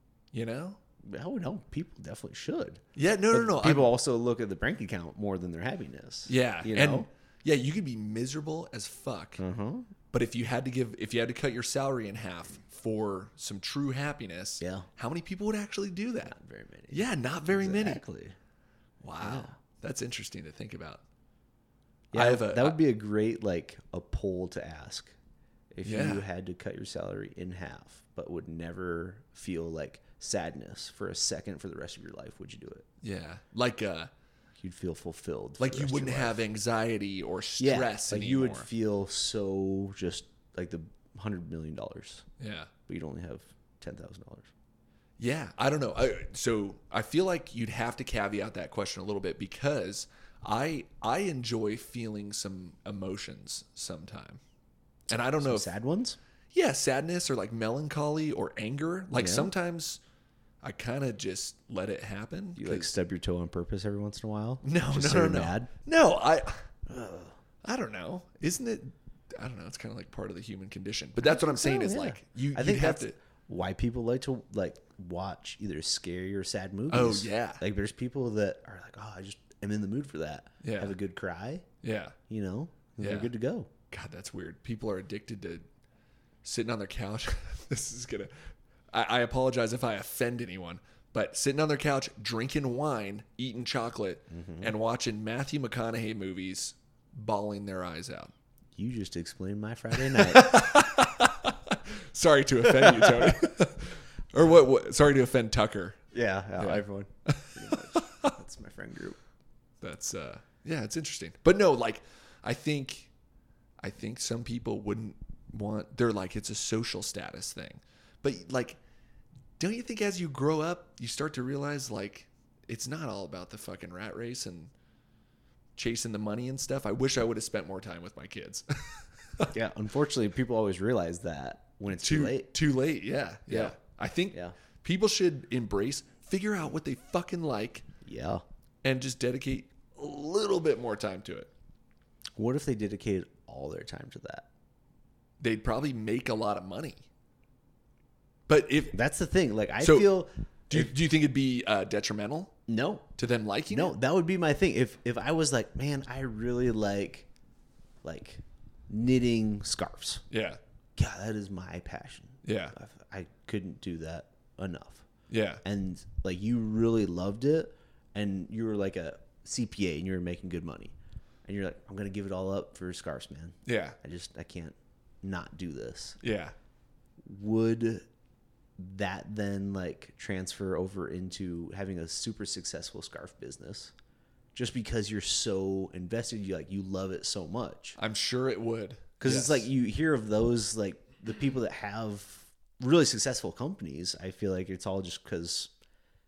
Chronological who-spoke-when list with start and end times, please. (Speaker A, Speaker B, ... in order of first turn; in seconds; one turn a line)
Speaker A: 0.3-0.8
Speaker B: 1.0-7.1
Speaker A: 3.0-3.9
Speaker A: 6.3-9.4
Speaker B: 9.4-9.9
Speaker A: 10.1-16.3
Speaker B: 14.6-14.9
Speaker B: 16.2-18.4
Speaker A: 16.9-18.0
Speaker A: 19.0-21.0
Speaker B: 19.2-19.5
Speaker B: 22.1-25.1
Speaker A: 22.1-22.8
Speaker B: 25.7-32.9
Speaker A: 25.8-26.2
Speaker A: 33.0-34.1
Speaker B: 34.6-36.4
Speaker A: 35.6-38.7
Speaker B: 37.6-42.2
Speaker A: 42.4-42.7
Speaker B: 42.9-44.5
Speaker A: 45.2-54.4
Speaker A: 55.1-55.7
Speaker B: 55.4-56.2
Speaker A: 56.5-60.0
Speaker B: 59.1-59.5
Speaker A: 60.6-62.9
Speaker B: 62.6-65.7
Speaker A: 64.6-66.7
Speaker B: 66.9-67.3
Speaker A: 67.6-73.2
Speaker B: 71.2-81.7
Speaker A: 76.9-77.6
Speaker A: 80.6-81.0
Speaker A: 81.8-82.2
Speaker B: 82.3-83.7
Speaker A: 83.0-83.3
Speaker A: 83.9-85.6
Speaker A: 86.4-98.3
Speaker B: 94.3-94.7
Speaker B: 98.7-100.7
Speaker A: 99.9-106.0
Speaker B: 102.6-103.5
Speaker B: 106.1-109.2
Speaker A: 106.6-108.3
Speaker A: 109.8-113.1
Speaker A: 113.8-118.8
Speaker A: 119.6-124.7
Speaker A: 125.8-129.5
Speaker B: 129.5-132.5
Speaker A: 131.9-137.8
Speaker B: 133.5-133.7
Speaker B: 138.0-138.4
Speaker A: 138.8-141.5
Speaker B: 142.3-144.5
Speaker A: 145.4-147.1
Speaker A: 148.5-149.0
Speaker B: 148.9-150.9
Speaker A: 149.8-150.1
Speaker A: 150.7-152.5
Speaker B: 152.7-153.1
Speaker A: 153.2-153.9
Speaker B: 153.7-157.3
Speaker B: 158.0-160.2
Speaker A: 160.3-160.6
Speaker B: 160.9-165.1
Speaker A: 162.4-162.7
Speaker A: 165.3-165.6
Speaker B: 165.6-176.2
Speaker A: 173.7-174.0
Speaker A: 176.2-176.5
Speaker B: 177.2-178.0
Speaker B: 178.8-183.9
Speaker B: 184.5-188.0
Speaker A: 188.0-189.7
Speaker B: 189.2-195.7